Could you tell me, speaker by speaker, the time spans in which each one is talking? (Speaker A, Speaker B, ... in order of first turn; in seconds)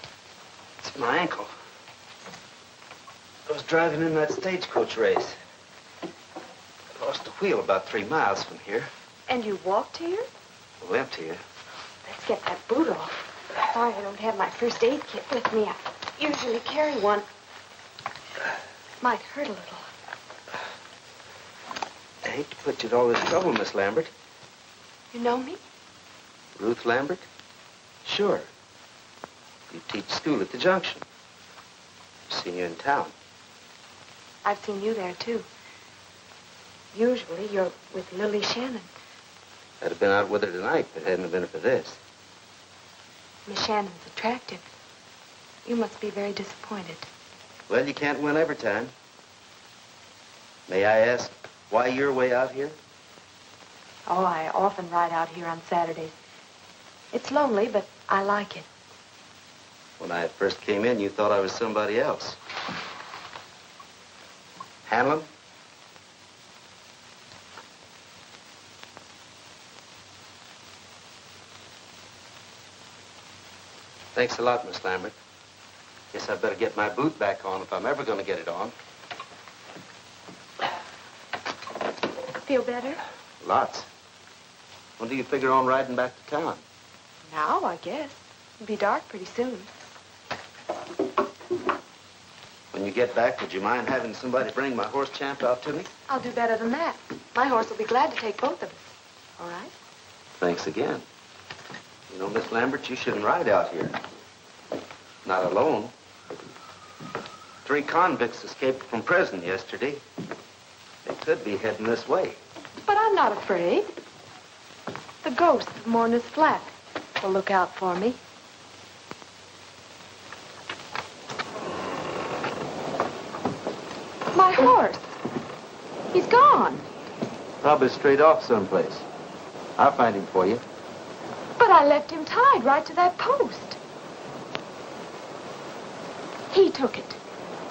Speaker A: 0.8-1.5, 3.5-5.4, 7.0-8.9, 10.8-11.4, 22.2-24.1, 26.6-27.2, 28.0-28.5, 29.7-31.0, 32.3-33.1, 39.8-42.0, 47.7-48.9, 50.7-52.8, 60.0-62.4, 64.8-65.3, 74.1-75.1, 76.1-78.7, 83.4-83.9, 85.0-86.6, 92.7-95.9, 100.4-101.0, 102.1-103.9, 105.2-105.9, 107.6-110.0, 111.0-112.4, 127.6-129.0, 129.8-130.6
Speaker B: 9.3-10.3, 12.0-17.3, 19.0-19.9, 25.1-25.6, 34.4-35.5, 36.9-38.9, 43.5-44.7, 45.6-47.1, 54.1-56.1, 57.1-58.7, 82.5-83.0, 87.3-89.7, 96.1-99.7, 112.8-113.9, 115.2-118.2, 124.3-125.1, 126.1-126.9, 131.6-133.8, 136.5-137.2